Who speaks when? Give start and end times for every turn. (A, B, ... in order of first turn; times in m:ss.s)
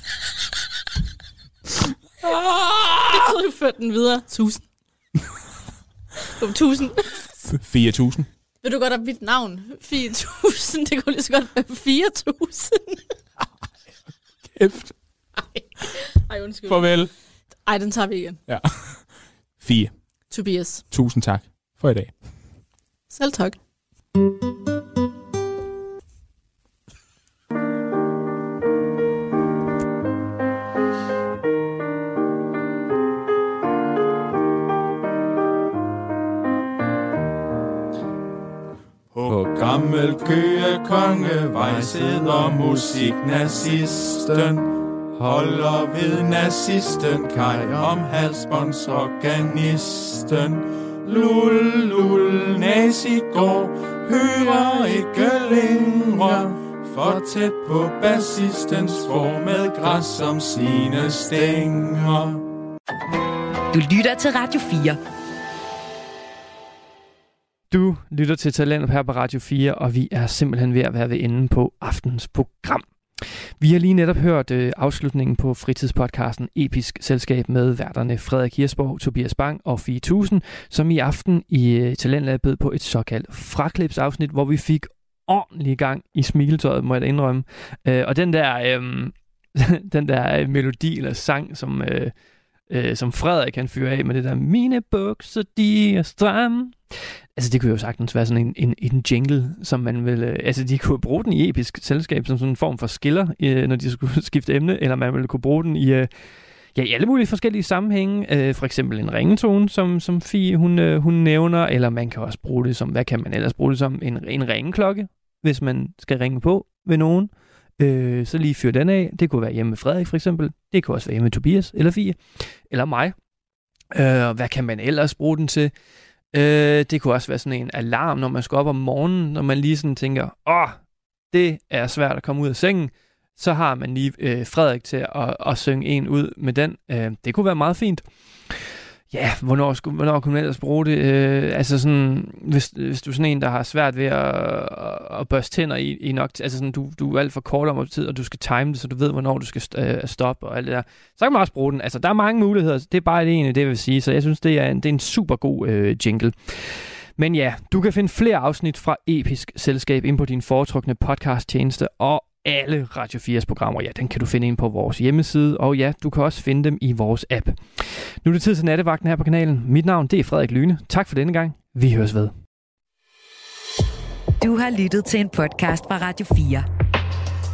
0:02.2-0:03.3 A
0:03.1-0:04.6 B
0:06.4-0:07.2 B
0:07.4-0:08.3 A
0:08.6-0:13.0 B
0:14.5-0:14.9 A
0:15.4-0:16.9 B
0:16.7-0:17.1 A
0:17.7-0:18.4 B
0:18.5-0:19.0 A
0:19.6-0:19.9 A
0:20.3-0:20.8 B
0:20.9-0:22.1 A
0:23.1-0:23.6 B
0:39.1-1:02.4 C
1:03.7-1:05.0 D
1:07.7-1:32.1 E
1:32.7-1:46.1 E
1:46.8-2:03.2 E
2:03.9-2:05.7 E
2:06.3-2:52.3 E
2:54.4-2:56.7 D